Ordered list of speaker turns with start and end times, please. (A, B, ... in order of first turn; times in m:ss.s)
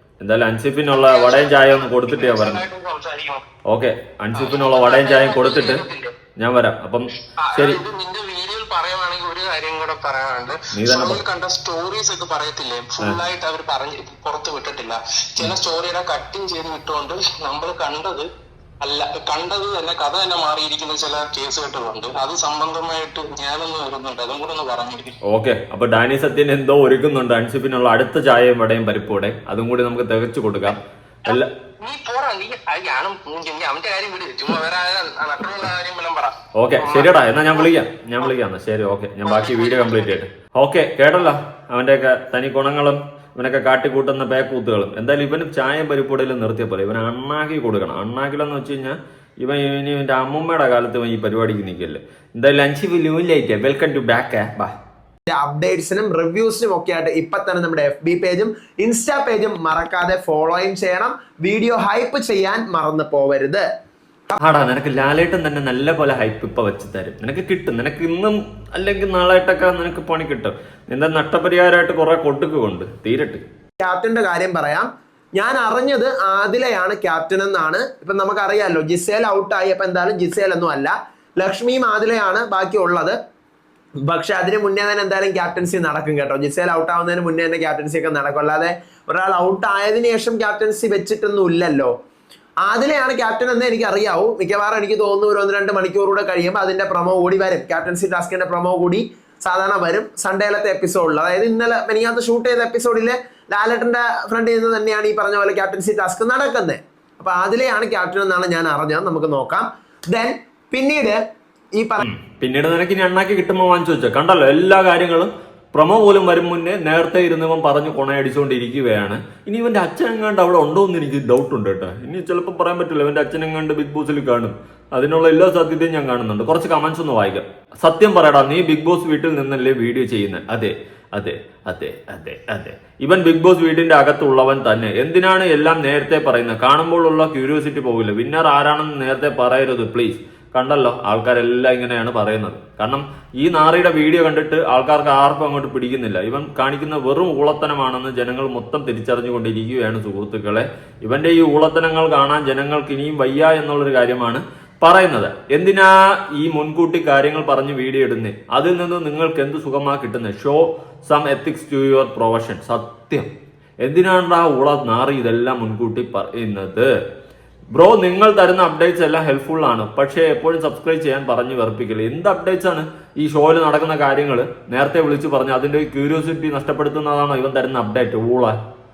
0:00.2-0:02.6 A
0:00.9-0:03.4 B
0:03.7-0:05.8 A
0:04.4-0:06.1 B
0:06.4-0:07.8 A
0:07.4-0:18.2 B
0:10.7-0:11.2 A
0:18.8-0:25.1 B
0:25.3-0:31.5 A
0:31.3-0:37.7 B
0:36.6-0:54.8 A
0:39.2-0:40.2 B
0:55.3-1:03.6 C
1:04.4-1:13.4 A
1:13.8-1:23.2 C
1:24.1-1:31.9 C
1:32.6-1:51.2 C
1:51.8-1:52.0 C
1:52.0-2:43.3 A
2:43.8-2:46.9 A
2:47.7-2:58.6 A